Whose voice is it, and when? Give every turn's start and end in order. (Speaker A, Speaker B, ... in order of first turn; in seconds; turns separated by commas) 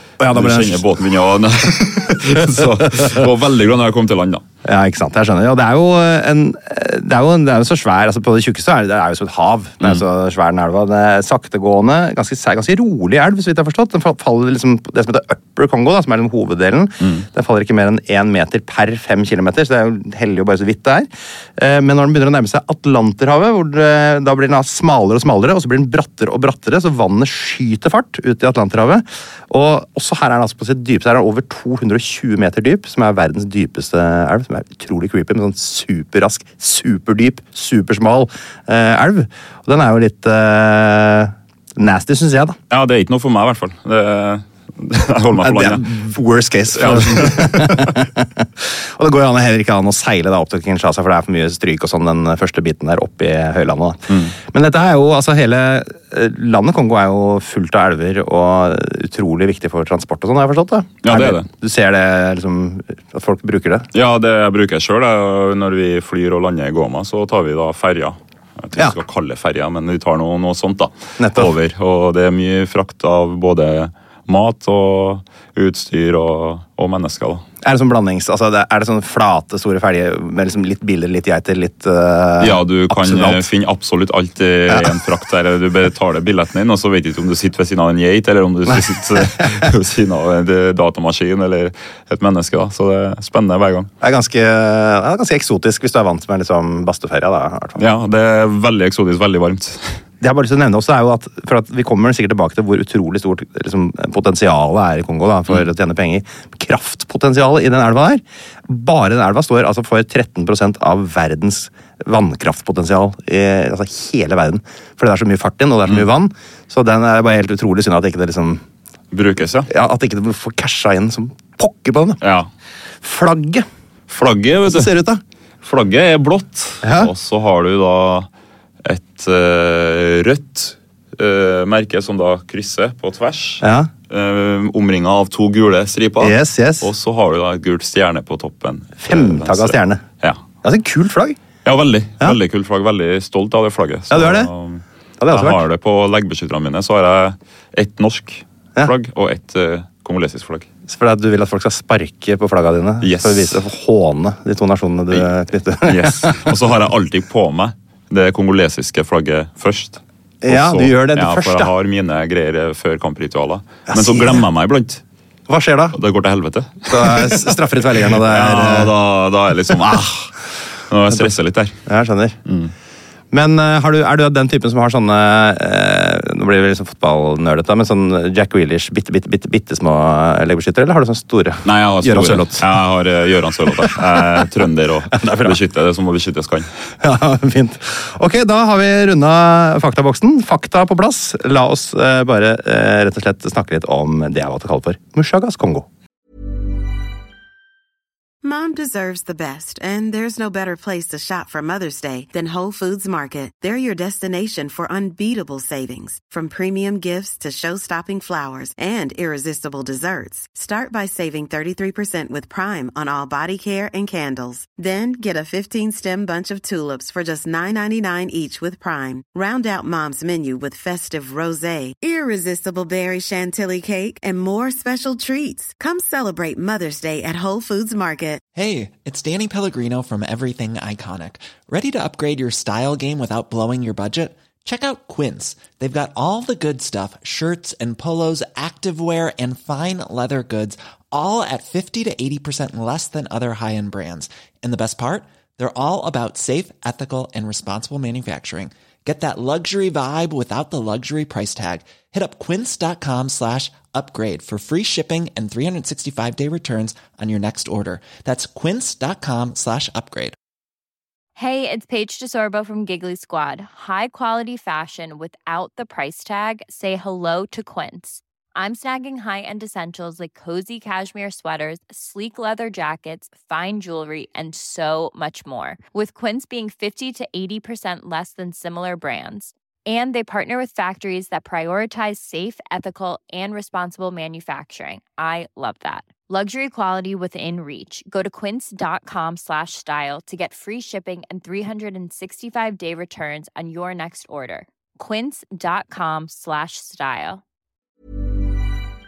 Speaker A: 0.2-0.8, Speaker B: 0.3-4.4, Speaker A: 4.7-42.6, Speaker B: 42.7-46.1, Speaker A: 45.4-63.9, Speaker B: 46.7-48.0, Speaker B: 54.1-54.4, Speaker B: 61.0-61.5, Speaker B: 63.9-77.5, Speaker A: 71.2-71.5, Speaker A: 77.6-83.5, Speaker B: 82.4-93.9, Speaker A: 94.0-97.8, Speaker B: 97.8-100.0, Speaker A: 100.2-118.6, Speaker B: 119.1-119.7, Speaker A: 119.7-122.2, Speaker B: 122.2-122.5, Speaker A: 123.0-123.7, Speaker B: 124.1-124.9, Speaker A: 124.7-125.2, Speaker B: 125.6-128.3, Speaker A: 126.8-127.1, Speaker B: 128.8-140.4, Speaker A: 133.6-133.9, Speaker A: 136.2-136.9, Speaker A: 139.0-140.0, Speaker A: 140.6-141.4, Speaker B: 141.6-150.7, Speaker A: 144.1-144.5, Speaker A: 145.2-145.6, Speaker A: 150.9-156.6, Speaker B: 153.0-153.6, Speaker B: 155.8-165.0, Speaker A: 160.4-161.7, Speaker A: 163.9-164.4, Speaker A: 165.5-166.0, Speaker B: 165.9-170.3, Speaker A: 166.9-168.9, Speaker B: 170.9-171.7, Speaker A: 171.9-172.4, Speaker B: 172.4-172.7, Speaker A: 173.3-182.7, Speaker B: 181.6-186.7, Speaker A: 185.1-185.6, Speaker A: 187.0-195.9, Speaker C: 198.4-228.4, Speaker D: 228.6-260.4, Speaker E: 261.4-297.4